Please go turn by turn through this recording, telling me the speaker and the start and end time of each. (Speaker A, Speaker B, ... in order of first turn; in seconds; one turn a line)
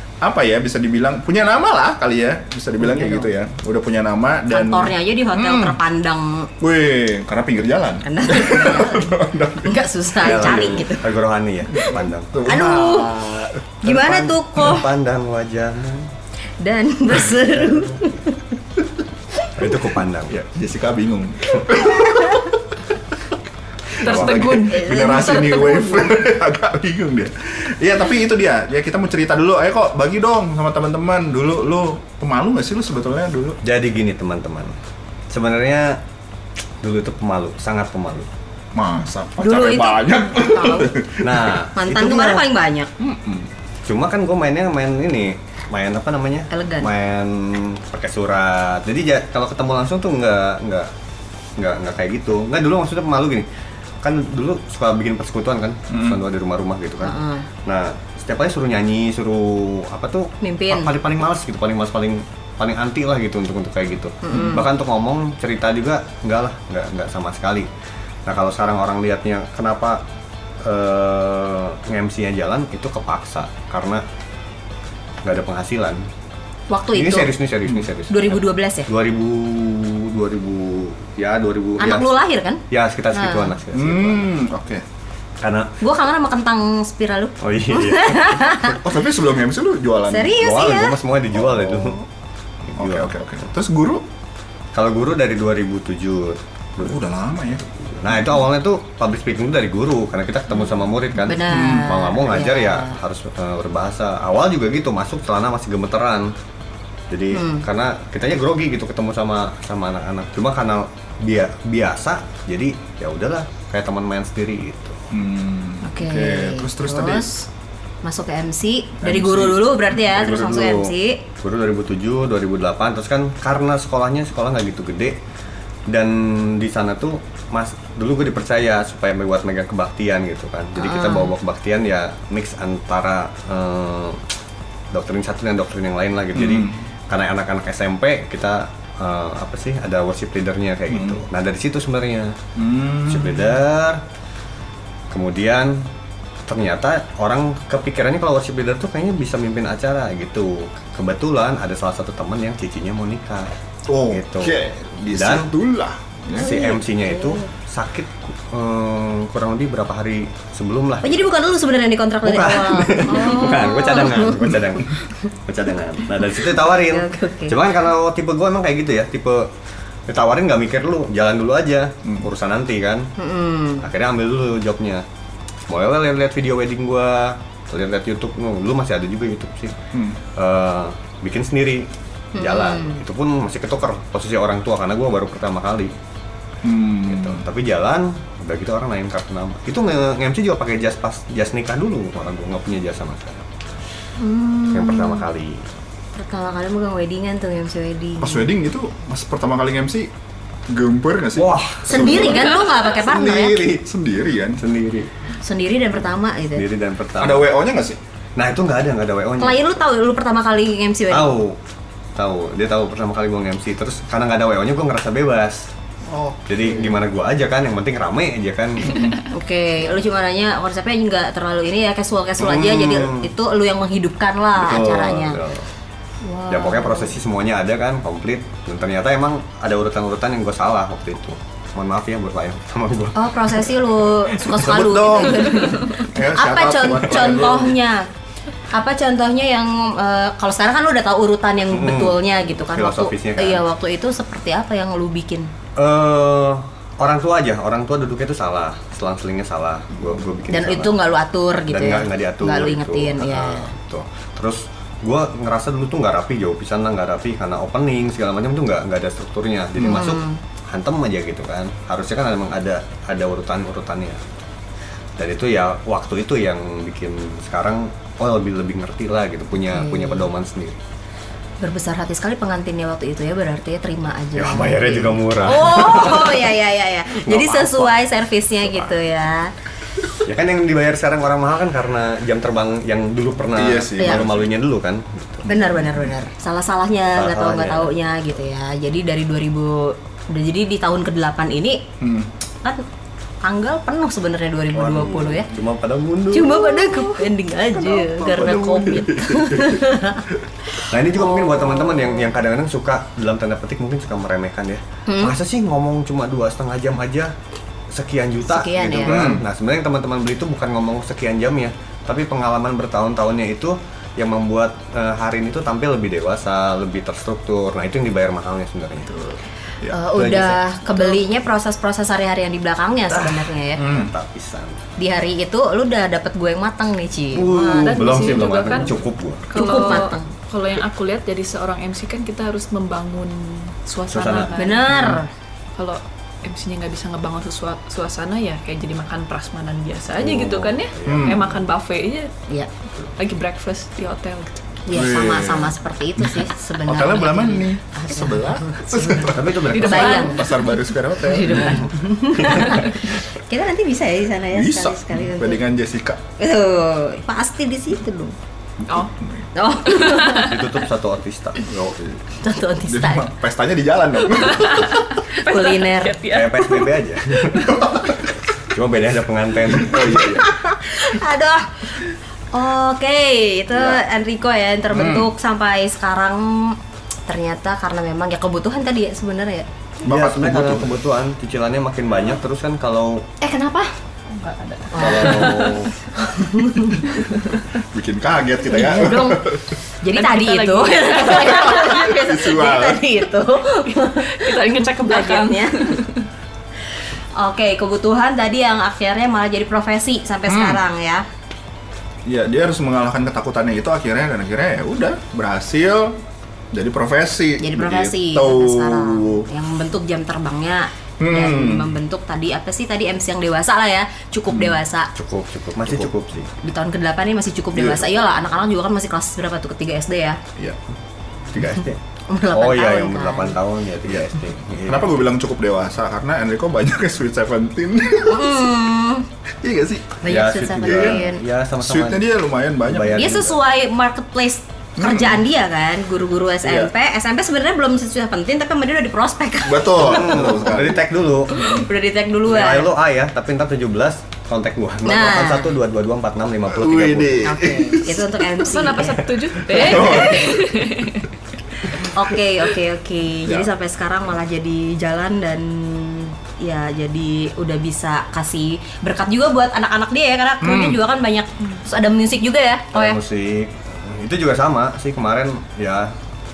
Speaker A: 0.2-5.8
Speaker B: 2.8-3.2
Speaker B: 4.5-6.5
Speaker A: 6.6-9.8
Speaker B: 8.0-11.1
Speaker C: 10.2-12.4
Speaker A: 11.7-13.6
Speaker B: 12.4-14.9
Speaker C: 13.8-16.1
Speaker B: 16.6-18.4
Speaker C: 17.3-18.1
Speaker C: 19.6-20.3
Speaker A: 20.3-22.7
Speaker A: 24.0-33.6
Speaker D: 24.0-26.1
Speaker C: 24.1-24.4
Speaker B: 24.6-25.9
Speaker C: 33.6-34.7
Speaker C: 35.3-36.0
Speaker C: 36.8-38.3
Speaker A: 38.7-41.6
Speaker B: 39.4-40.9
Speaker C: 41.2-42.4
Speaker B: 41.7-42.9
Speaker A: 43.0-43.5
Speaker C: 43.9-50.9
Speaker B: 46.5-46.9
Speaker C: 51.6-53.5
Speaker C: 54.0-67.7
Speaker A: 55.9-56.2
Speaker B: 57.0-57.5
Speaker B: 60.4-60.9
Speaker B: 64.2-64.6
Speaker C: 68.2-70.0
Speaker C: 70.6-74.0
Speaker C: 75.2-76.0
Speaker B: 76.7-77.3
Speaker C: 76.9-84.3
Speaker B: 78.1-78.9
Speaker B: 81.8-82.6
Speaker B: 83.1-83.5
Speaker A: 83.7-84.8
Speaker C: 85.4-85.7
Speaker B: 85.8-88.8
Speaker C: 87.4-88.7
Speaker A: 88.8-90.4
Speaker B: 90.1-91.0
Speaker C: 90.3-92.0
Speaker A: 91.3-92.0
Speaker C: 92.7-93.1
Speaker A: 92.8-94.0
Speaker C: 94.7-97.0
Speaker A: 96.8-98.4
Speaker C: 97.9-106.3
Speaker B: 101.2-103.0
Speaker A: 101.5-101.9
Speaker C: 107.1-115.1
Speaker B: 107.3-107.6
Speaker A: 115.1-117.5
Speaker B: 115.8-117.3
Speaker B: 118.0-121.2
Speaker A: 119.0-119.5
Speaker C: 119.3-125.2
Speaker C: 125.9-134.2
Speaker B: 130.8-131.3
Speaker C: 134.9-142.3
Speaker A: 136.3-136.8
Speaker A: 140.9-141.2
Speaker A: 142.6-143.6
Speaker C: 143.1-144.0
Speaker C: 145.1-145.9
Speaker C: 146.5-153.5
Speaker A: 153.9-156.5
Speaker C: 154.1-154.6
Speaker C: 155.1-155.5
Speaker C: 156.3-161.3
Speaker B: 156.3-157.5
Speaker B: 161.0-165.1
Speaker C: 162.2-169.5
Speaker B: 166.3-167.6
Speaker C: 170.1-173.1
Speaker B: 173.2-173.9
Speaker C: 173.8-175.0
Speaker C: 175.7-179.7
Speaker A: 179.9-180.2
Speaker C: 180.3-185.9
Speaker B: 182.3-183.0
Speaker A: 186.6-187.4
Speaker C: 187.1-193.5
Speaker B: 194.2-195.2
Speaker C: 194.7-195.6
Speaker B: 196.2-198.5
Speaker A: 198.2-200.1
Speaker A: 200.7-204.6
Speaker C: 201.3-202.7
Speaker B: 201.9-203.6
Speaker C: 204.6-205.1
Speaker B: 205.4-206.6
Speaker C: 206.5-207.5
Speaker A: 207.2-208.0
Speaker C: 208.3-209.7
Speaker B: 209.4-211.4
Speaker C: 211.1-211.6
Speaker C: 212.2-215.7
Speaker A: 216.1-217.0
Speaker C: 216.4-219.1
Speaker A: 218.8-219.2
Speaker B: 219.3-225.4
Speaker C: 222.4-223.3
Speaker C: 224.6-225.7
Speaker B: 226.2-227.1
Speaker C: 226.5-235.7
Speaker B: 233.1-238.1
Speaker A: 234.6-237.8
Speaker C: 237.1-237.6
Speaker B: 238.7-245.5
Speaker C: 241.7-243.6
Speaker C: 245.8-251.0
Speaker B: 250.5-253.7
Speaker C: 251.7-264.2
Speaker B: 259.8-260.4
Speaker C: 265.2-270.8
Speaker B: 269.6-270.3
Speaker B: 271.6-279.5
Speaker C: 274.3-276.6
Speaker C: 277.1-278.0
Speaker C: 278.6-278.9
Speaker C: 280.1-285.5
Speaker A: 283.5-284.5
Speaker B: 284.0-284.2
Speaker A: 285.4-286.1
Speaker B: 285.4-291.8
Speaker C: 287.1-287.9
Speaker A: 292.0-292.3
Speaker B: 293.4-295.5
Speaker C: 294.7-297.2
Speaker B: 296.3-300.2
Speaker A: 297.7-300.1
Speaker B: 300.8-302.3
Speaker C: 300.8-307.3
Speaker B: 305.1-305.4
Speaker C: 307.9-319.1
Speaker B: 308.5-309.1
Speaker A: 309.1-309.4
Speaker D: 319.1-319.4
Speaker B: 319.9-323.8
Speaker C: 320.1-321.2
Speaker C: 323.1-324.8
Speaker A: 323.8-324.1
Speaker B: 325.0-328.4
Speaker C: 327.3-330.0
Speaker D: 327.8-334.9
Speaker B: 329.5-330.3
Speaker C: 334.1-334.5
Speaker B: 334.5-335.3
Speaker D: 335.7-342.3
Speaker C: 340.1-341.6
Speaker A: 341.0-341.5
Speaker D: 343.2-344.7
Speaker B: 344.9-350.5
Speaker A: 344.9-351.9
Speaker C: 349.3-350.3
Speaker D: 349.7-350.6
Speaker B: 351.2-355.6
Speaker C: 351.5-353.0
Speaker A: 354.5-356.2
Speaker B: 356.4-358.4
Speaker A: 358.8-359.5
Speaker B: 359.5-360.6
Speaker D: 359.9-360.6
Speaker C: 360.3-361.8
Speaker A: 361.6-362.4
Speaker B: 362.4-363.3
Speaker A: 362.9-365.1
Speaker D: 364.6-366.9
Speaker B: 365.3-366.2
Speaker C: 366.3-367.8
Speaker A: 367.5-368.3
Speaker C: 368.6-370.4
Speaker A: 369.7-370.7
Speaker B: 370.2-379.7
Speaker A: 374.9-375.3
Speaker A: 380.0-380.9
Speaker C: 380.0-383.3
Speaker B: 383.4-383.9
Speaker D: 384.3-385.9
Speaker B: 384.9-387.1
Speaker C: 384.9-385.9
Speaker D: 387.1-387.6
Speaker A: 387.8-389.7
Speaker B: 388.7-395.9
Speaker D: 390.1-392.1
Speaker A: 391.4-393.0
Speaker D: 393.9-396.3
Speaker B: 397.4-401.2
Speaker A: 400.5-400.8
Speaker A: 402.2-406.2
Speaker A: 406.7-409.5
Speaker B: 407.6-415.1
Speaker A: 411.2-411.9
Speaker A: 414.5-414.8
Speaker C: 415.1-416.5
Speaker B: 416.6-420.4
Speaker A: 417.7-418.1
Speaker C: 421.5-425.2
Speaker B: 422.3-423.6
Speaker A: 424.1-424.3
Speaker A: 424.9-428.7
Speaker B: 428.3-429.3
Speaker A: 429.6-430.2
Speaker B: 430.2-431.4
Speaker C: 430.2-432.3
Speaker A: 430.9-431.2
Speaker A: 431.8-433.3
Speaker C: 432.9-433.6
Speaker B: 433.1-440.6
Speaker A: 435.0-435.4
Speaker A: 436.6-436.9
Speaker A: 439.6-441.0
Speaker C: 440.0-441.8
Speaker B: 441.5-442.9
Speaker C: 442.4-447.6
Speaker B: 445.0-445.7
Speaker A: 446.7-448.6
Speaker B: 447.4-450.6
Speaker D: 448.6-451.2
Speaker A: 449.5-450.9
Speaker B: 451.9-463.2
Speaker A: 460.6-461.0
Speaker C: 462.9-466.1